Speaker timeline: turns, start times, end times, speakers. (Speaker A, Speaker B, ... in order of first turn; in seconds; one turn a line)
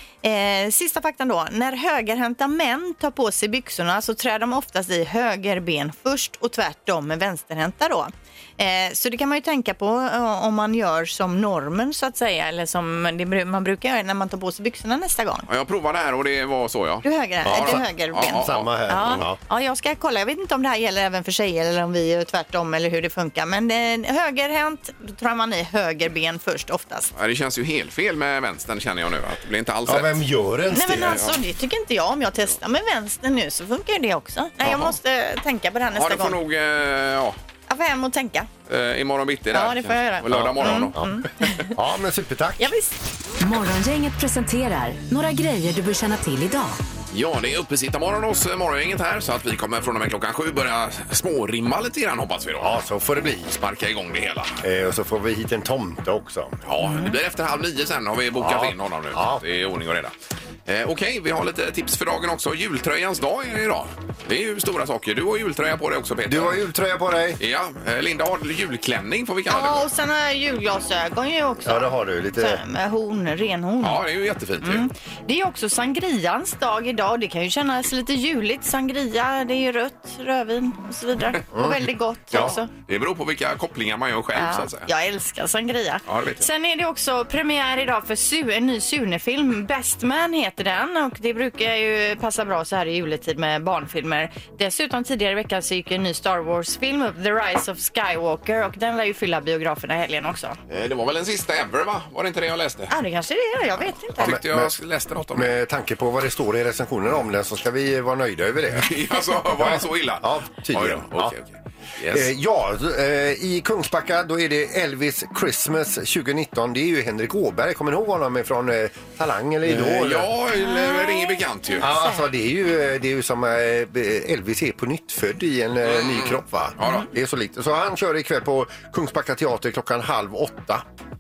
Speaker A: 0.2-15.5
Speaker B: 15.5-19.2
Speaker A: 17.0-27.1
Speaker C: 17.4-19.4
Speaker B: 27.1-30.3
Speaker C: 29.9-31.2
Speaker A: 30.7-36.4
Speaker B: 30.8-31.3
Speaker B: 35.9-37.4
Speaker A: 37.7-38.5
Speaker B: 38.7-41.5
Speaker A: 39.5-41.7
Speaker C: 40.3-41.1
Speaker C: 41.7-42.7
Speaker A: 42.6-42.9
Speaker D: 43.4-46.8
Speaker B: 47.1-52.7
Speaker C: 52.6-53.5
Speaker B: 53.5-54.6
Speaker C: 54.6-56.6
Speaker B: 56.6-60.1
Speaker C: 58.4-59.4
Speaker B: 60.6-66.6
Speaker C: 66.3-67.4
Speaker B: 67.4-69.8
Speaker A: 69.5-74.0
Speaker C: 71.7-72.6
Speaker B: 73.8-74.9
Speaker A: 74.6-82.7
Speaker C: 81.5-81.8
Speaker B: 82.3-84.9
Speaker A: 84.3-100.6
Speaker B: 86.1-86.5
Speaker B: 100.7-102.9
Speaker A: 102.9-104.3
Speaker B: 104.2-105.5
Speaker C: 104.2-104.7
Speaker C: 105.3-108.9
Speaker B: 108.8-112.3
Speaker C: 109.5-111.3
Speaker C: 112.1-120.3
Speaker B: 119.7-121.9
Speaker A: 120.7-121.3
Speaker A: 121.8-122.2
Speaker C: 121.8-130.8
Speaker B: 125.8-127.1